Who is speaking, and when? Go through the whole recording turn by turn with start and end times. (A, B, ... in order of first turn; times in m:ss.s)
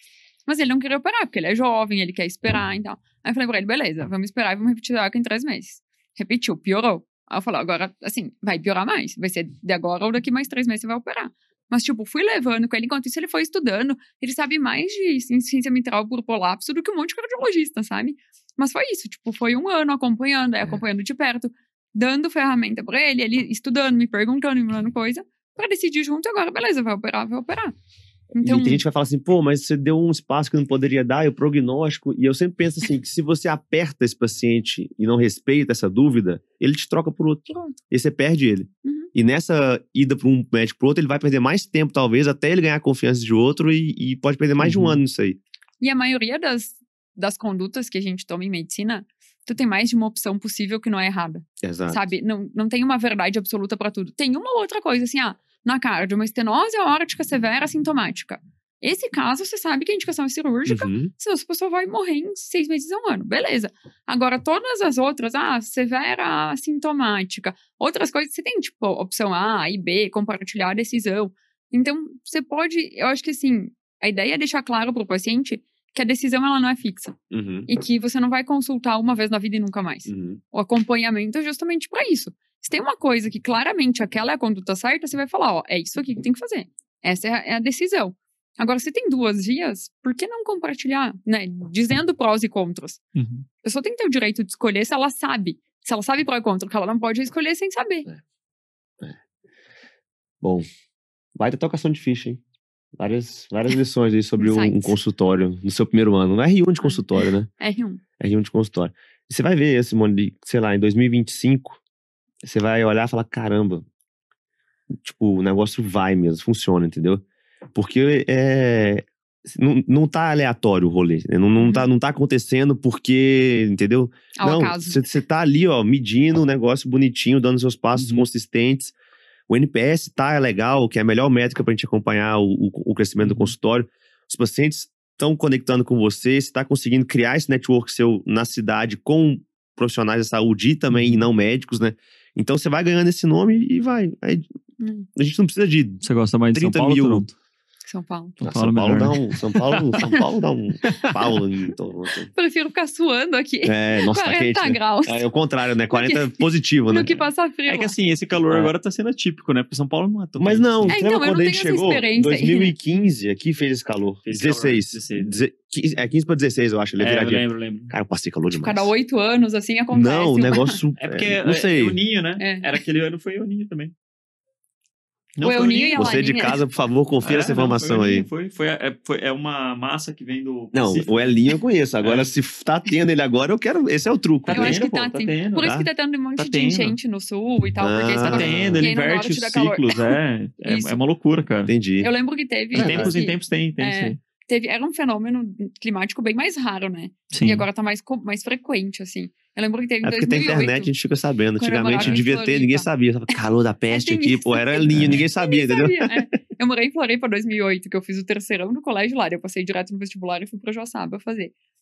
0:00.4-0:27.7 A
0:28.3-0:28.8 A
0:28.4-0:45.4 B
0:37.5-0:37.8 A
0:38.8-0:39.1 A
0:44.6-0:45.0 C
0:45.8-1:17.2 A
0:51.6-0:52.1 B
1:00.7-1:01.1 B
1:17.3-1:17.7 B
1:17.7-1:33.0 A
1:20.1-1:20.4 B
1:33.1-1:33.4 C
1:33.6-1:38.1 A
1:41.4-1:42.4 B
1:43.0-1:47.5 B
1:44.4-1:45.0 A
1:47.6-1:48.0 A
1:48.2-1:51.8 B
1:52.4-1:53.8 B
1:54.9-1:57.2 B
1:57.7-2:08.9 B
2:01.6-2:01.9 A
2:04.4-2:05.0 A
2:08.0-2:08.2 C
2:09.5-2:24.4 B
2:13.2-2:13.5 C
2:20.9-2:21.2 C
2:24.8-2:25.1 A
2:25.1-2:26.0 B
2:26.0-2:27.3 C
2:26.5-2:27.2 B
2:27.9-2:28.4 A
2:28.4-2:30.0 C
2:28.4-2:32.3 B
2:30.8-2:31.3 C
2:32.3-2:35.3 A
2:33.6-2:37.2 B
2:35.9-2:37.9 A
2:37.7-2:41.0 C
2:40.4-2:48.9 B
2:40.9-2:42.8 A
2:44.2-2:45.3 C
2:47.0-2:47.9 C
2:48.5-2:50.8 A
2:49.9-2:52.0 B
2:51.0-2:53.9 C
2:52.4-2:52.7 A
2:55.4-2:56.1 C
2:55.4-2:56.6 A
2:55.9-2:58.3 B
2:57.2-3:01.4 C
3:00.7-3:04.9 B
3:02.0-3:02.3 C
3:04.4-3:05.8 C
3:04.5-3:11.0 A
3:05.6-3:05.9 B
3:06.4-3:07.0 C
3:07.8-3:08.8 B
3:08.2-3:11.7 C
3:11.7-3:12.1 B
3:12.0-3:20.9 A
3:12.7-3:14.2 C
3:12.7-3:13.1 B
3:17.3-3:17.6 C
3:20.0-3:26.3 B
3:21.6-3:22.9 A
3:22.0-3:22.2 C
3:23.9-3:31.5 A
3:24.9-3:25.2 C